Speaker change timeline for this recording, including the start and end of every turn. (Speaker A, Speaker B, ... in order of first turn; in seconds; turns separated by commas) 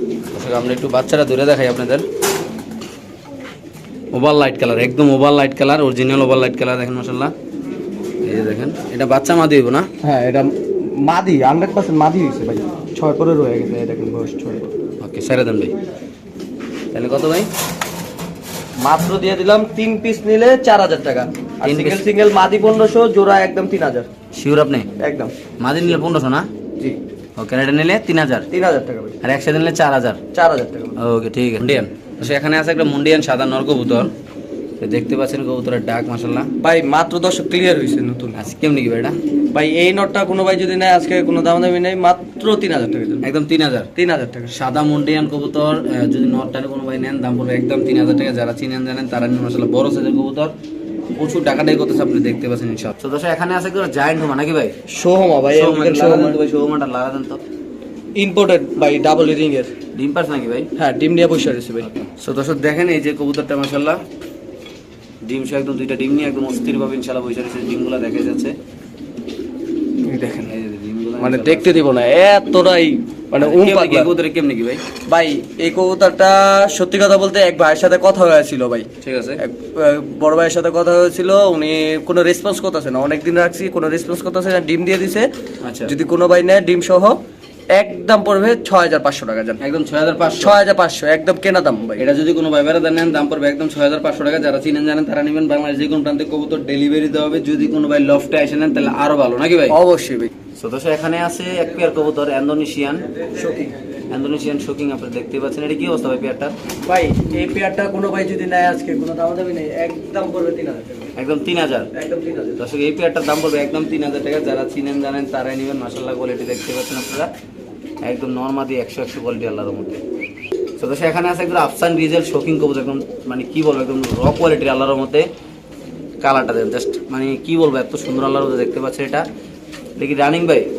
Speaker A: 0.3-2.0, Speaker A: 4.1-7.3, Speaker A: 8.2-9.9, Speaker B: 10.0-14.7, Speaker A: 15.0-15.7, Speaker A: 16.9-17.5, Speaker B: 18.8-24.1, Speaker A: 21.6-22.0, Speaker A: 24.3-24.9, Speaker B: 25.0-25.3, Speaker A: 25.6-26.5, Speaker A: 27.4-28.5, Speaker B: 28.5-29.2, Speaker A: 29.2-30.2, Speaker B: 30.3-31.0, Speaker A: 31.0-34.1, Speaker A: 34.8-36.5, Speaker B: 36.6-38.4, Speaker A: 38.4-39.1, Speaker B: 39.5-43.2, Speaker A: 43.2-43.9, Speaker B: 44.0-44.5, Speaker A: 44.5-50.5, Speaker A: 51.2-54.7, Speaker B: 54.9-56.4, Speaker A: 55.5-57.4, Speaker B: 58.1-59.7, Speaker A: 59.9-60.7, Speaker B: 60.8-61.9, Speaker A: 61.8-64.0, Speaker A: 65.2-68.5, Speaker B: 70.0-70.5, Speaker A: 70.5-71.8, Speaker B: 71.2-74.1, Speaker A: 73.4-74.8, Speaker B: 75.1-85.3, Speaker A: 79.0-79.4, Speaker A: 85.6-85.9, Speaker B: 85.8-87.2, Speaker B: 87.7-89.6, Speaker A: 89.6-90.5, Speaker B: 90.4-92.0, Speaker A: 92.0-99.8, Speaker B: 99.7-100.3, Speaker A: 100.6-103.1, Speaker B: 103.3-103.7, Speaker A: 104.1-106.5, Speaker B: 106.8-111.1, Speaker A: 111.2-111.9, Speaker B: 111.9-112.6, Speaker A: 112.6-117.3, Speaker A: 118.0-120.0, Speaker A: 120.8-125.3, Speaker A: 126.2-129.2, Speaker A: 130.0-130.7